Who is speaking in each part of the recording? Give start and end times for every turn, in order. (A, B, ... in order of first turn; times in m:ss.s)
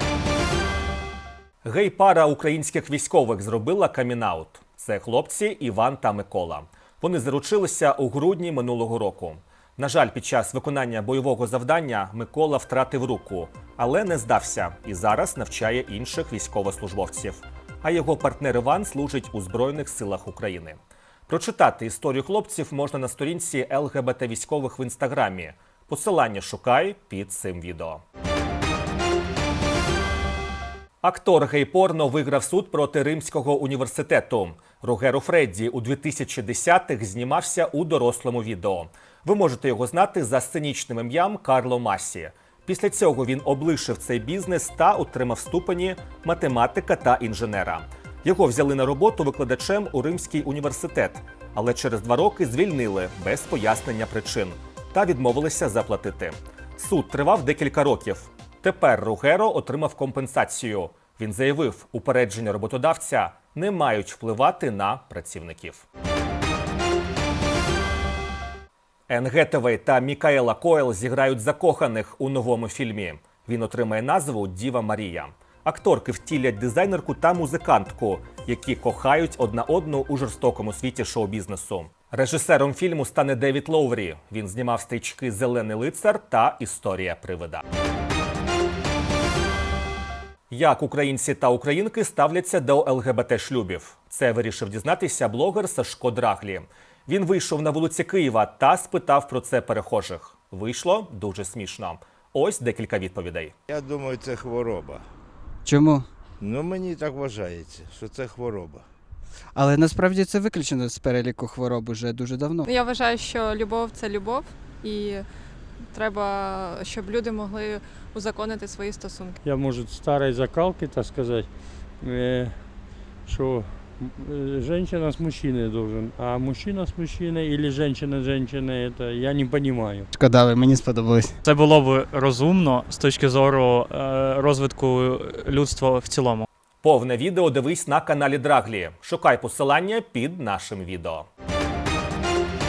0:01.6-0:28.0 A
0:31.0-1:05.9 A
1:09.1-1:27.6 A
1:30.5-1:43.5 A
1:43.7-1:45.0 B
1:45.6-1:46.1 C
1:46.4-1:48.8 B
1:49.6-1:52.7 C
1:52.7-1:55.2 D
1:55.9-1:59.4 D
1:59.4-2:10.1 E
2:10.1-2:11.4 C
2:11.5-2:16.5 F
2:16.8-2:21.3 A